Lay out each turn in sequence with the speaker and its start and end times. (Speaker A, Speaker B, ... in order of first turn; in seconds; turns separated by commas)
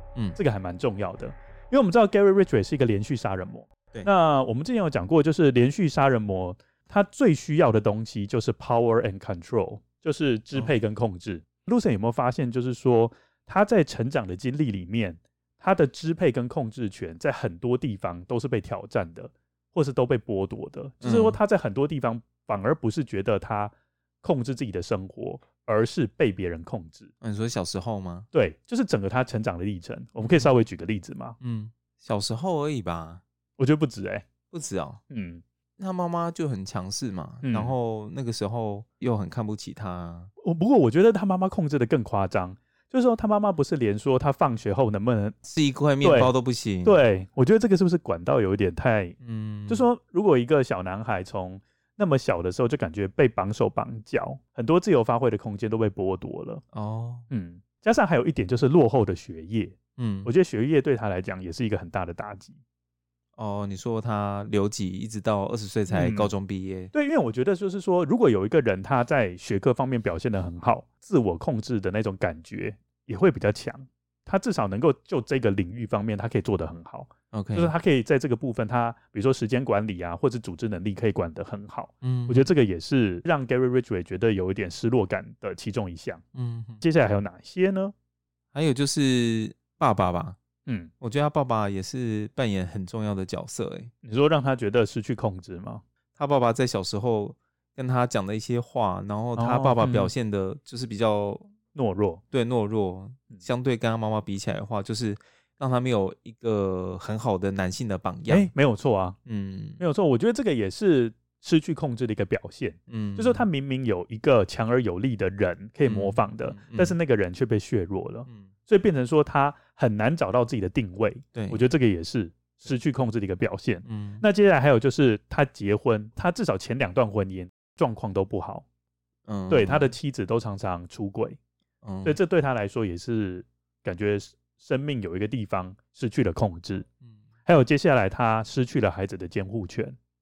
Speaker A: 0.3-27.1, Speaker B: 21.0-21.4, Speaker B: 27.2-28.3, Speaker A: 28.3-31.4, Speaker B: 30.2-30.5, Speaker B: 31.4-33.2, Speaker A: 33.6-34.3, Speaker B: 34.5-35.0, Speaker A: 35.1-35.4, Speaker B: 35.8-40.3, Speaker A: 37.4-37.7, Speaker A: 40.4-45.4, Speaker B: 45.5-47.0, Speaker A: 46.0-49.1, Speaker B: 49.2-49.9, Speaker A: 49.7-56.6, Speaker B: 56.7-57.3, Speaker A: 57.3-62.6, Speaker B: 60.0-60.3, Speaker B: 63.4-66.9, Speaker A: 65.9-66.3, Speaker A: 66.9-86.2, Speaker B: 77.3-77.7, Speaker B: 82.0-82.5, Speaker B: 86.3-86.8, Speaker A: 86.8-87.9, Speaker B: 88.5-90.4, Speaker B: 91.0-93.9, Speaker A: 94.0-95.8, Speaker B: 96.2-101.5, Speaker A: 99.4-100.1, Speaker A: 101.7-102.2, Speaker B: 102.3-108.5, Speaker A: 108.3-109.2, Speaker B: 109.2-109.8, Speaker A: 109.8-128.6, Speaker B: 112.9-113.4, Speaker B: 115.8-117.0, Speaker B: 121.3-121.6, Speaker B: 123.8-124.2, Speaker B: 129.3-129.9, Speaker A: 129.5-131.4, Speaker B: 131.8-132.2, Speaker A: 132.0-136.9, Speaker A: 137.4-139.9